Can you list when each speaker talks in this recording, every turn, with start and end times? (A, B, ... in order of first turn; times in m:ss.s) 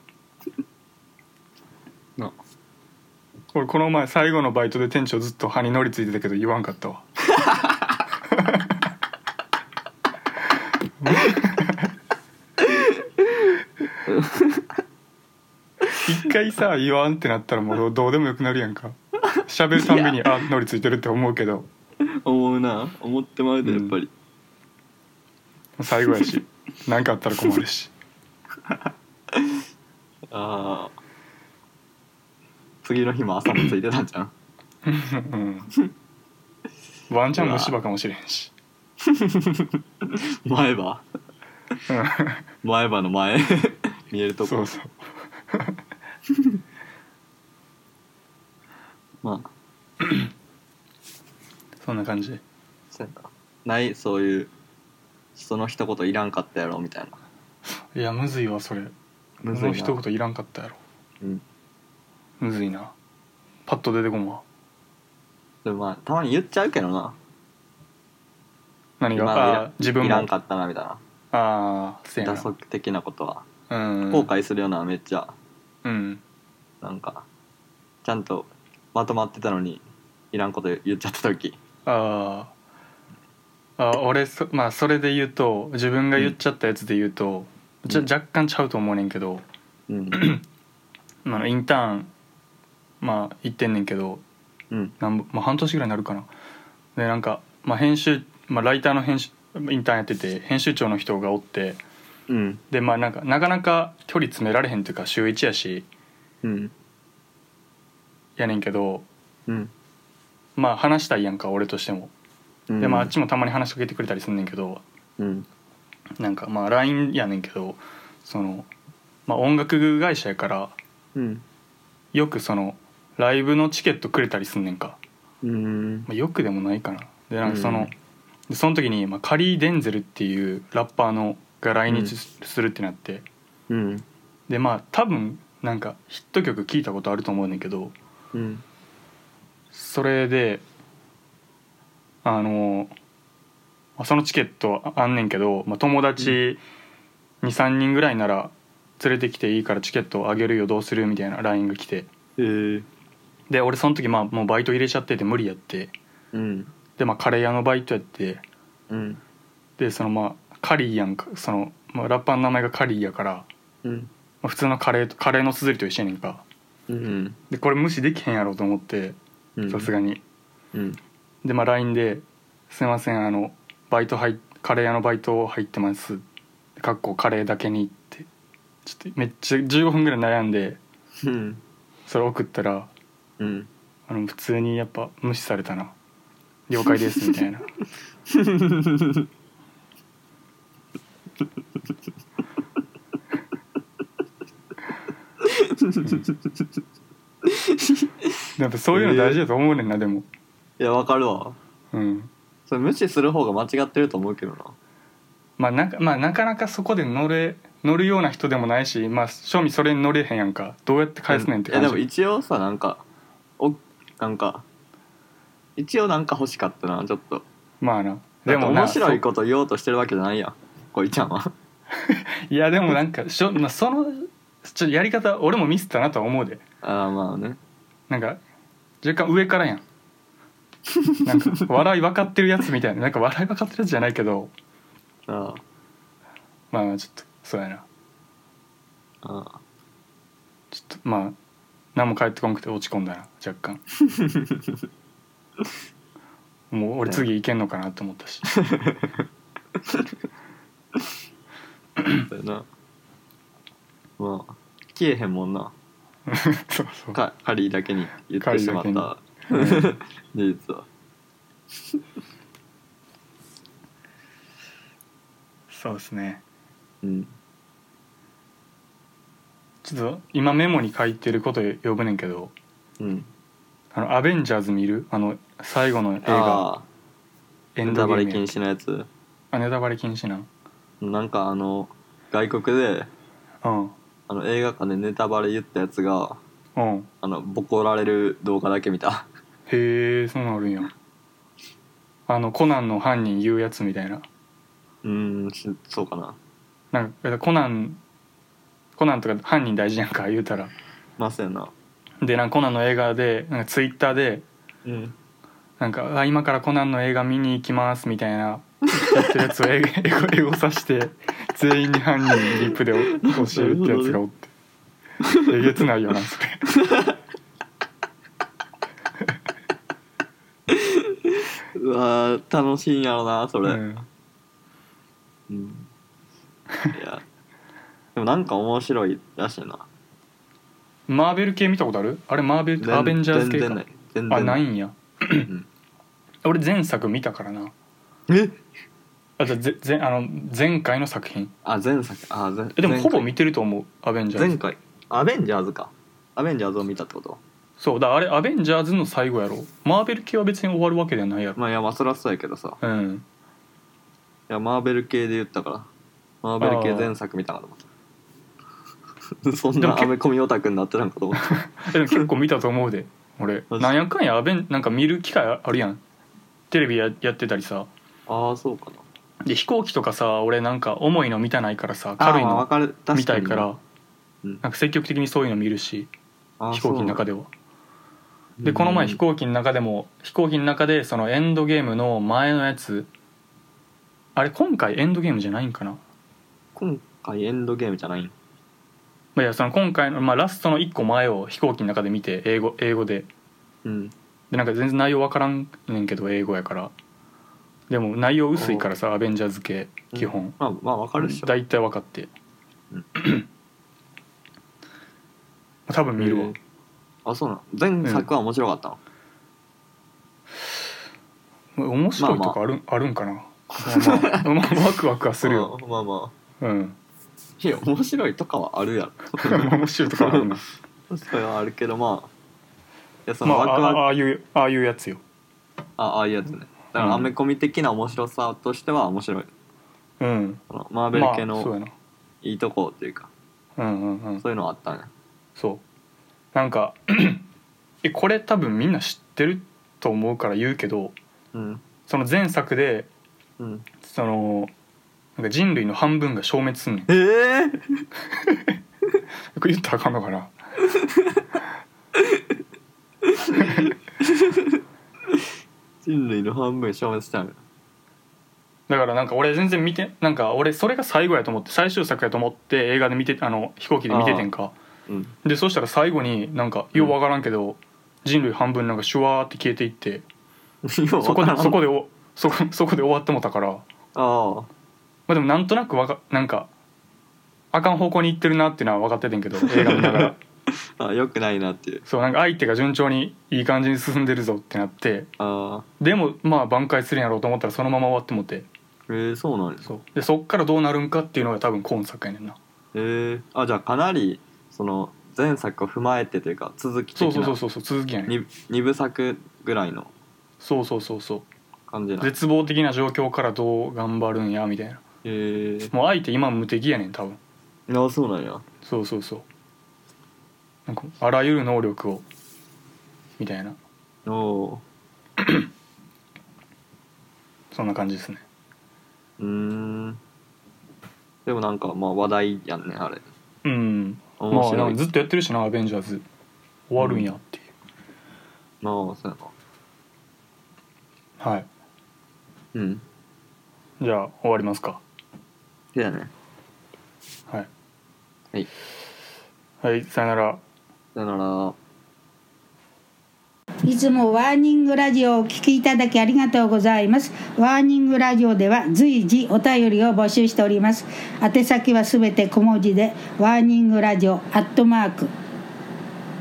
0:03.5-0:07.4 A
0:11.0-0:11.8 A
0:14.1-0:14.6 B
0:16.0-0:21.7 A
0:19.8-0:20.2 B
0:22.2-0:24.1 B
0:23.6-0:23.9 A
0:25.8-0:27.9 A
0:30.3-0:31.0 B
0:32.8-0:34.3 B
0:34.8-0:35.7 A
0:37.1-0:38.5 A
0:37.3-0:37.7 B
0:39.0-0:41.0 B
0:41.9-0:42.4 A
0:42.6-0:44.7 B
0:44.4-0:45.0 A
0:49.2-0:49.5 B
0:51.8-0:52.4 A
0:52.9-0:54.5 B
0:55.3-0:57.2 B
0:57.9-0:58.9 A
0:59.4-1:00.0 B
0:59.5-1:00.8 A
1:02.4-1:02.9 A
1:03.6-1:04.4 A
1:05.6-1:07.2 B
1:09.0-1:10.3 A
1:09.1-1:11.0 B
1:11.3-1:12.5 A
1:12.2-1:13.4 B
1:13.7-1:14.3 A
1:14.1-1:15.3 B
1:15.8-1:16.2 A
1:16.8-1:17.2 B
1:18.0-1:21.6 B
1:21.8-1:22.5 A
1:23.8-1:29.4 A
1:29.9-1:30.2 B
1:30.1-1:30.4 A
1:31.2-1:32.1 A
1:33.0-1:34.2 A
1:35.0-1:36.3 A
1:37.0-1:41.8 A
1:42.3-1:42.6 B
1:42.7-1:45.8 A
1:46.4-1:46.7 B
1:48.4-1:49.0 A
1:49.5-1:49.7 B
1:50.6-1:52.1 A
1:52.7-1:53.1 B
1:52.8-1:54.8 A
1:55.2-1:55.4 B
1:56.2-1:58.7 A
1:59.3-2:00.7 A
2:01.1-2:01.4 B
2:02.1-2:05.0 A
2:05.4-2:06.1 B
2:06.1-2:07.9 A
2:07.4-2:07.9 B
2:08.5-2:13.3 A
2:11.9-2:12.1 B
2:13.7-2:14.0 B
2:14.5-2:17.9 A
2:18.3-2:18.6 B
2:19.7-2:20.6 A
2:22.2-2:22.9 A
2:24.0-2:26.6 A
2:27.4-2:32.1 A
2:32.4-2:32.9 B
2:33.5-2:35.9 A
2:36.3-2:36.7 B
2:37.0-2:38.4 A
2:38.9-2:39.2 B
2:39.8-2:43.5 A
2:43.8-2:44.1 B
2:44.4-2:46.4 A
2:46.9-2:47.4 B
2:47.5-2:49.2 A
2:49.6-2:49.9 B
2:49.7-2:50.2 A
2:50.7-2:51.0 B
2:51.4-2:56.2 A
2:56.8-2:58.2 A
2:58.8-3:00.8 A
3:01.2-3:01.6 B
3:02.1-3:02.9 A
3:03.4-3:03.7 B
3:04.1-3:05.9 A
3:06.7-3:07.7 A
3:08.3-3:09.2 B
3:15.5-3:16.3 B
3:17.7-3:18.1 B
3:18.6-3:20.2 A
3:18.9-3:19.4 B
3:20.8-3:21.6 B
3:21.9-3:22.3 A
3:22.7-3:24.7 B
3:25.6-3:32.0 A
3:31.3-3:33.0 B
3:33.6-3:34.6 B
3:35.8-3:37.4 B
3:37.8-3:39.2 A
3:38.4-3:41.5 B
3:42.1-3:46.6 A
3:46.8-3:47.6 B
3:48.1-3:48.4 A
3:49.0-3:49.8 A
3:51.2-3:54.5 A
3:55.3-3:55.6 B
3:56.7-3:57.8 A
3:59.2-3:59.6 B
4:00.7-4:01.4 A
4:01.9-4:03.8 A
4:04.2-4:04.5 B
4:06.7-4:08.7 A
4:08.7-4:09.0 B
4:12.2-4:12.7 B
4:14.2-4:15.7 B
4:16.3-4:17.2 A
4:17.1-4:20.8 B
4:18.4-4:19.9 A
4:25.7-4:26.4 A
4:27.0-4:27.3 B
4:29.8-4:32.5 A
4:33.0-4:33.3 B
4:33.9-4:36.7 A
4:36.2-4:36.8 B
4:37.8-4:38.5 A
4:37.8-4:39.1 B
4:39.5-4:40.5 A
4:41.0-4:43.1 B
4:43.6-4:43.9 A
4:44.3-4:46.4 B
4:46.8-4:47.1 A
4:47.2-4:49.3 B
4:49.7-4:50.9 A
4:52.3-4:54.2 A
4:55.0-4:56.4 B
4:56.9-4:58.0 A
4:59.0-5:00.7 A
5:01.2-5:01.7 B
5:02.2-5:04.4 A
5:04.8-5:05.1 B
5:05.8-5:14.5 A
5:12.5-5:14.2 B
5:15.4-5:16.6 A
5:20.7-5:21.0 B
5:21.8-5:23.8 B
5:23.6-5:24.1 A
5:25.5-5:25.9 B
5:26.9-5:27.2 B
5:28.1-5:29.8 B
5:31.1-5:35.5 A
5:32.8-5:34.6 B
5:36.4-5:37.7 A
5:38.3-5:38.6 B
5:39.4-5:41.5 A
5:41.6-5:43.3 B
5:42.8-5:44.6 A
5:44.3-5:47.4 B
5:47.8-5:51.6 A
5:51.6-5:52.8 B
5:52.8-5:53.2 A
5:54.5-5:55.9 B
5:56.4-5:57.8 B
5:56.6-5:57.1 A
5:59.4-6:02.3 B
5:59.8-6:00.1 A
6:01.4-6:06.0 A
6:03.7-6:04.0 B
6:06.7-6:07.9 A
6:08.3-6:09.0 B
6:09.4-6:13.8 A
6:12.2-6:13.7 B
6:14.6-6:16.1 A
6:16.6-6:17.2 B
6:16.7-6:17.5 A
6:18.6-6:19.2 B
6:18.6-6:23.1 A
6:24.4-6:26.0 A
6:26.8-6:28.3 B
6:29.3-6:33.3 A
6:33.8-6:34.1 B
6:34.5-6:36.9 A
6:37.9-6:40.6 A
6:38.6-6:38.9 B
6:40.1-6:41.5 B
6:41.2-6:42.3 A
6:43.2-6:43.4 A
6:45.9-6:46.6 A
6:46.2-6:46.6 B
6:47.2-6:49.0 B
6:48.0-6:48.3 A
6:51.8-6:55.7 A
6:52.2-6:52.6 B
6:53.8-6:54.4 B
6:55.4-6:56.3 B
6:56.6-6:57.0 A
6:57.6-7:00.5 B
6:59.4-7:00.6 A
7:01.1-7:02.3 B
7:03.2-7:04.0 B
7:03.4-7:05.2 A
7:06.0-7:09.5 B
7:07.0-7:07.3 A
7:10.2-7:10.6 A
7:10.7-7:11.7 B
7:11.1-7:11.9 A
7:12.4-7:13.3 B
7:13.8-7:14.4 A
7:14.4-7:15.1 B
7:15.6-7:15.8 A
7:16.5-7:17.4 A
7:18.0-7:21.2 A
7:21.5-7:21.8 B
7:22.1-7:23.1 A
7:23.6-7:23.8 B
7:24.0-7:24.7 A
7:25.4-7:27.1 A
7:27.1-7:28.0 B
7:29.5-7:30.5 A
7:33.3-7:34.5 B
7:36.0-7:37.6 B
7:38.9-7:44.7 A
7:44.1-7:44.5 B
7:45.1-7:45.3 B
7:45.4-7:50.2 A
7:50.8-7:51.8 B
7:51.2-7:53.8 A
7:54.1-7:54.7 B
7:55.3-7:56.7 A
7:57.7-8:00.4 A
7:59.6-8:00.3 B
8:01.0-8:02.0 B
8:02.0-8:05.3 A
8:05.4-8:05.8 B
8:06.0-8:08.7 A
8:09.1-8:09.9 B
8:09.8-8:12.6 A
8:12.9-8:17.6 B
8:17.2-8:18.3 A
8:18.3-8:20.1 B
8:20.6-8:21.5 A
8:21.9-8:22.3 B
8:22.2-8:25.0 A
8:25.2-8:25.9 B
8:25.9-8:27.4 A
8:27.9-8:28.6 B
8:28.8-8:29.4 A
8:30.9-8:32.2 A
8:33.4-8:33.8 A
8:34.2-8:34.8 B
8:37.7-8:38.4 A
8:39.4-8:40.2 B
8:41.4-8:43.3 B
8:43.6-8:46.2 A
8:44.4-8:45.0 B
8:46.9-8:47.7 A
8:47.0-8:47.3 B
8:48.8-8:49.5 B
8:51.4-8:51.7 A
8:52.7-8:53.0 B
8:54.0-8:55.0 A
8:55.9-8:56.3 B
8:59.8-9:00.6 A
9:01.1-9:01.8 B
9:03.8-9:15.3 C